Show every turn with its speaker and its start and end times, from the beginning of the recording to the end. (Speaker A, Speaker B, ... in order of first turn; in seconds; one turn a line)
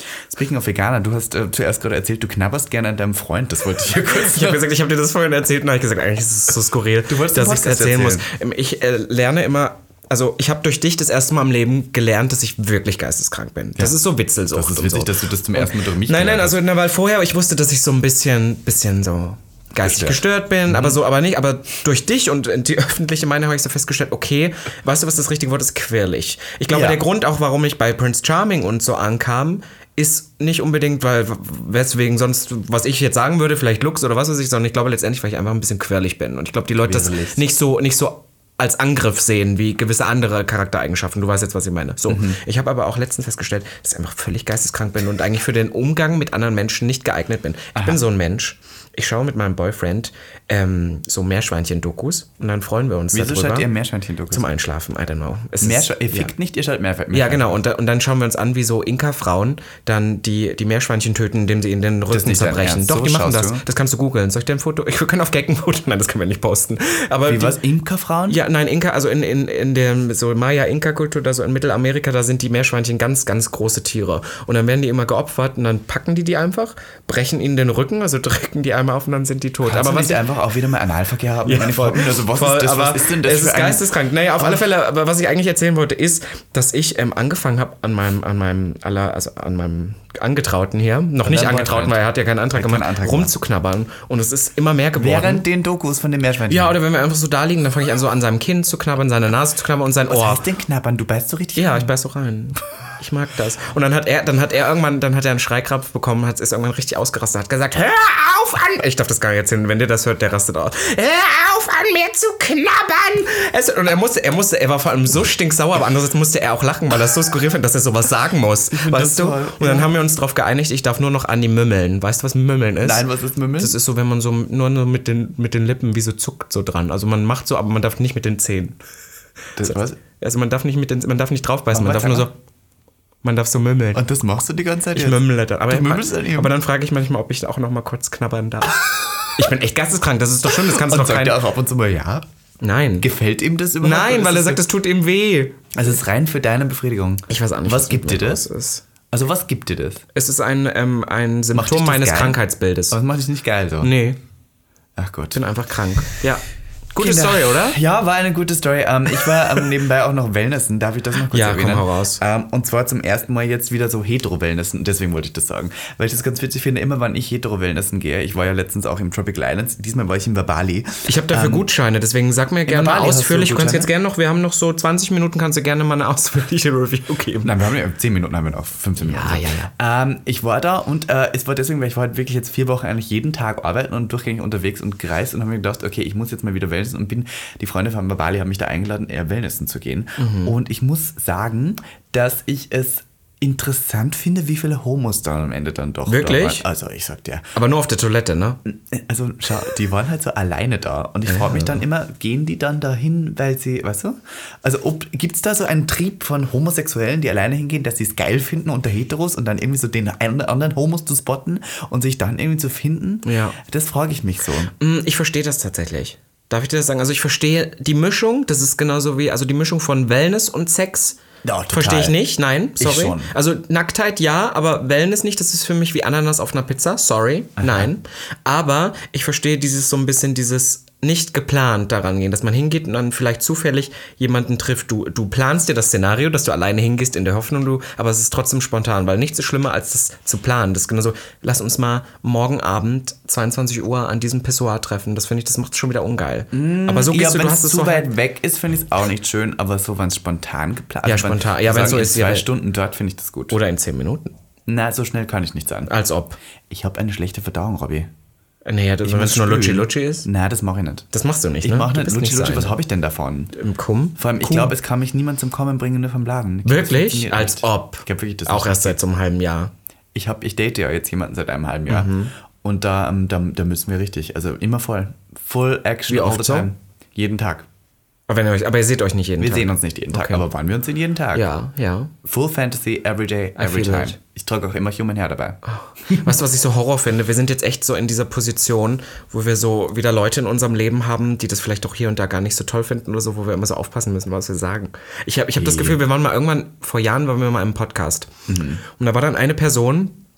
Speaker A: 0.2-4.6
Speaker B: 4.1-53.7
Speaker A: 7.1-8.2
Speaker A: 14.5-16.6
Speaker A: 19.8-21.0
Speaker A: 26.7-27.0
Speaker A: 36.8-37.4
Speaker A: 42.1-42.4
Speaker A: 47.7-48.0
Speaker A: 53.1-54.5
Speaker B: 54.3-56.3
Speaker A: 55.6-57.6
Speaker B: 57.1-67.6
Speaker A: 62.1-63.6
Speaker A: 67.2-68.4
Speaker B: 68.3-80.2
Speaker A: 79.7-84.6
Speaker B: 81.5-95.4
Speaker A: 91.2-92.0
Speaker A: 92.5-93.3
Speaker A: 95.0-96.8
Speaker B: 96.5-100.4
Speaker A: 100.1-101.9
Speaker B: 101.5-123.0
Speaker A: 118.7-119.9
Speaker A: 122.8-123.8
Speaker B: 123.6-128.8
Speaker A: 129.6-130.0
Speaker B: 129.7-132.3
Speaker A: 131.7-132.3
Speaker B: 133.2-134.0
Speaker A: 133.9-136.5
Speaker B: 134.9-141.4
Speaker A: 140.5-142.2
Speaker B: 142.6-143.1
Speaker A: 143.0-144.6
Speaker B: 143.8-145.7
Speaker A: 145.7-148.4
Speaker B: 147.3-148.8
Speaker A: 149.1-150.0
Speaker B: 150.1-153.0
Speaker A: 151.5-152.4
Speaker A: 152.9-153.9
Speaker B: 153.8-154.2
Speaker A: 155.0-155.4
Speaker B: 155.3-157.8
Speaker A: 157.0-171.7
Speaker B: 161.3-162.2
Speaker B: 171.1-177.5
Speaker A: 172.7-173.9
Speaker A: 177.4-197.5
Speaker B: 179.0-179.7
Speaker B: 190.2-190.5
Speaker B: 196.1-196.6
Speaker B: 197.5-198.6
Speaker A: 198.7-214.7
Speaker B: 201.2-201.8
Speaker B: 213.2-213.6
Speaker B: 214.8-221.2
Speaker A: 221.4-222.2
Speaker B: 221.7-248.1
Speaker A: 222.8-223.3
Speaker A: 227.6-227.9
Speaker A: 246.5-253.6
Speaker B: 251.0-252.5
Speaker B: 253.5-254.3
Speaker A: 254.7-255.9
Speaker B: 255.9-256.4
Speaker A: 256.7-258.1
Speaker B: 258.6-260.3
Speaker A: 259.0-261.1
Speaker B: 261.1-262.8
Speaker A: 261.6-263.5
Speaker B: 263.5-264.7
Speaker A: 264.2-269.0
Speaker B: 266.6-269.7
Speaker A: 270.1-277.6
Speaker B: 271.9-272.3
Speaker B: 276.1-276.7
Speaker B: 278.3-280.4
Speaker A: 279.4-281.5
Speaker B: 281.3-282.1
Speaker A: 282.2-286.3
Speaker B: 283.6-284.2
Speaker B: 285.7-298.3
Speaker A: 295.5-296.0
Speaker A: 298.5-298.8
Speaker B: 298.8-300.1